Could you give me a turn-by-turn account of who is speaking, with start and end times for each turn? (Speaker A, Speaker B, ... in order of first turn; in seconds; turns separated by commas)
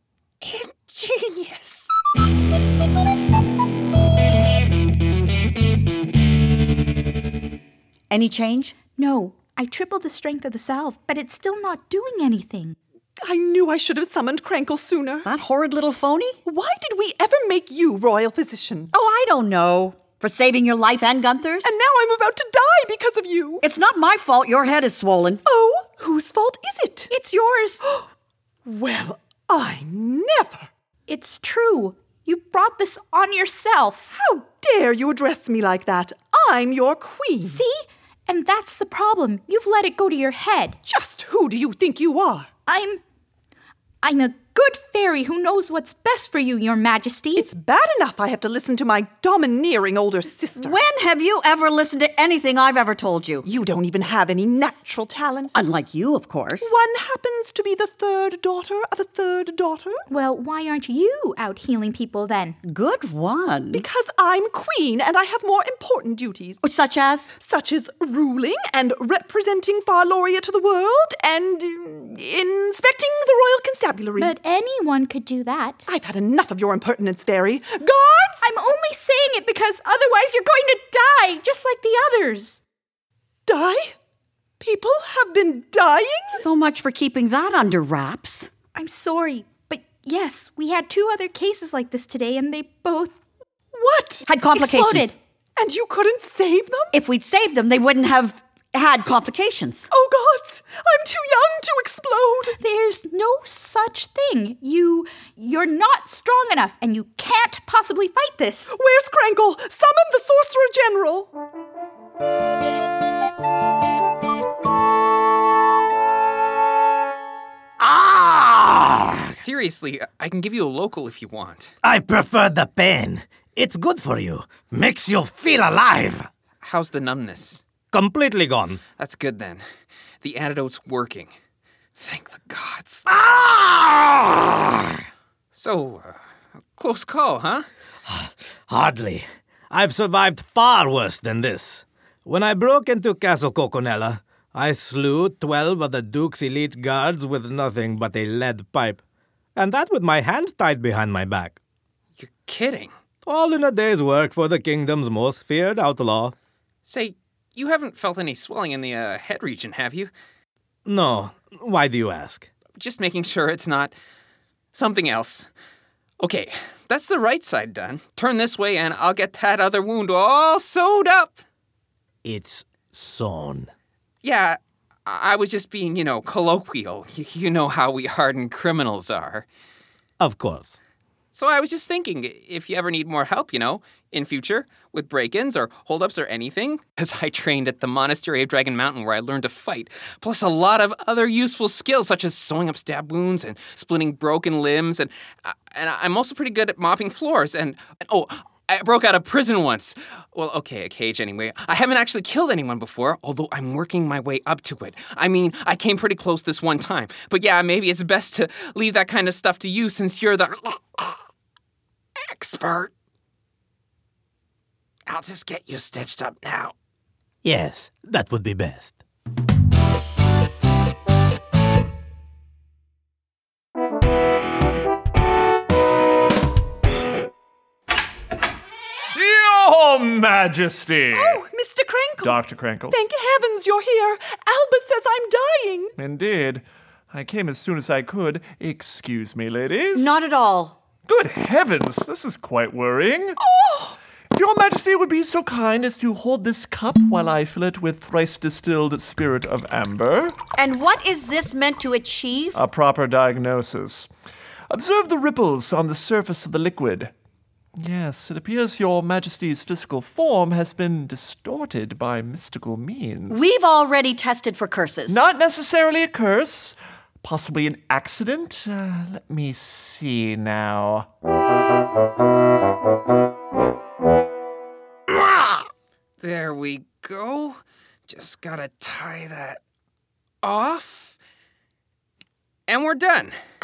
Speaker A: 0.4-1.9, Speaker B: 8.1-8.8, Speaker C: 8.9-12.8, Speaker D: 13.2-15.3, Speaker B: 15.2-16.4, Speaker D: 16.4-18.9, Speaker B: 18.9-21.7, Speaker D: 21.6-23.6, Speaker B: 23.6-25.4, Speaker D: 25.4-27.1, Speaker C: 27.1-27.8, Speaker D: 28.6-30.7, Speaker C: 31.1-34.1, Speaker D: 34.1-37.6, Speaker C: 37.4-40.8, Speaker D: 40.9-42.5, Speaker C: 42.7-43.0, Speaker C: 44.0-47.5, Speaker D: 47.4-50.8, Speaker B: 50.6-53.5, Speaker D: 53.4-55.5, Speaker B: 55.5-56.7, Speaker D: 56.6-60.0, Speaker C: 60.1-62.6, Speaker B: 62.6-63.8, Speaker D: 63.7-66.6, Speaker B: 66.6-67.3, Speaker D: 67.4-74.3, Speaker C: 74.2-75.8, Speaker D: 75.8-78.4, Speaker C: 78.4-82.6, Speaker D: 83.5-83.9, Speaker D: 84.6-86.4, Speaker B: 86.3-88.5, Speaker C: 88.7-93.2, Speaker D: 93.7-94.2, Speaker B: 94.2-95.1, Speaker C: 94.5-95.2, Speaker D: 95.6-96.9, Speaker B: 96.9-99.9, Speaker D: 99.9-102.6, Speaker C: 102.6-108.7, Speaker D: 108.7-111.3, Speaker E: 117.8-119.4, Speaker A: 119.3-121.7, Speaker E: 121.8-126.3, Speaker A: 126.6-127.6, Speaker E: 127.9-128.8, Speaker A: 129.0-129.6, Speaker A: 130.2-131.3, Speaker A: 132.0-133.0, Speaker E: 133.1-135.0, Speaker A: 135.5-136.2, Speaker A: 136.8-137.7, Speaker E: 138.1-149.0, Speaker E: 149.6-151.6, Speaker A: 152.2-152.9, Speaker E: 153.2-156.3, Speaker A: 156.8-160.1, Speaker E: 160.8-162.5, Speaker A: 162.8-163.9, Speaker A: 164.7-165.5, Speaker A: 166.2-171.4, Speaker E: 172.2-173.7, Speaker A: 174.2-179.4, Speaker E: 180.2-180.8, Speaker A: 181.3-211.2, Speaker A: 212.2-212.9, Speaker A: 215.1-216.7, Speaker E: 217.4-219.0, Speaker F: 229.1-231.4, Speaker D: 231.1-235.9, Speaker F: 232.2-232.9, Speaker F: 236.0-240.1, Speaker B: 239.9-240.8, Speaker F: 241.1-243.4, Speaker D: 243.4-243.9, Speaker F: 244.3-250.3, Speaker B: 250.6-252.6, Speaker F: 252.5-254.1, Speaker F: 254.7-257.1, Speaker F: 257.8-263.4, Speaker B: 263.3-265.2, Speaker F: 265.1-271.1, Speaker A: 276.2-279.6, Speaker A: 280.4-281.1, Speaker A: 282.7-283.3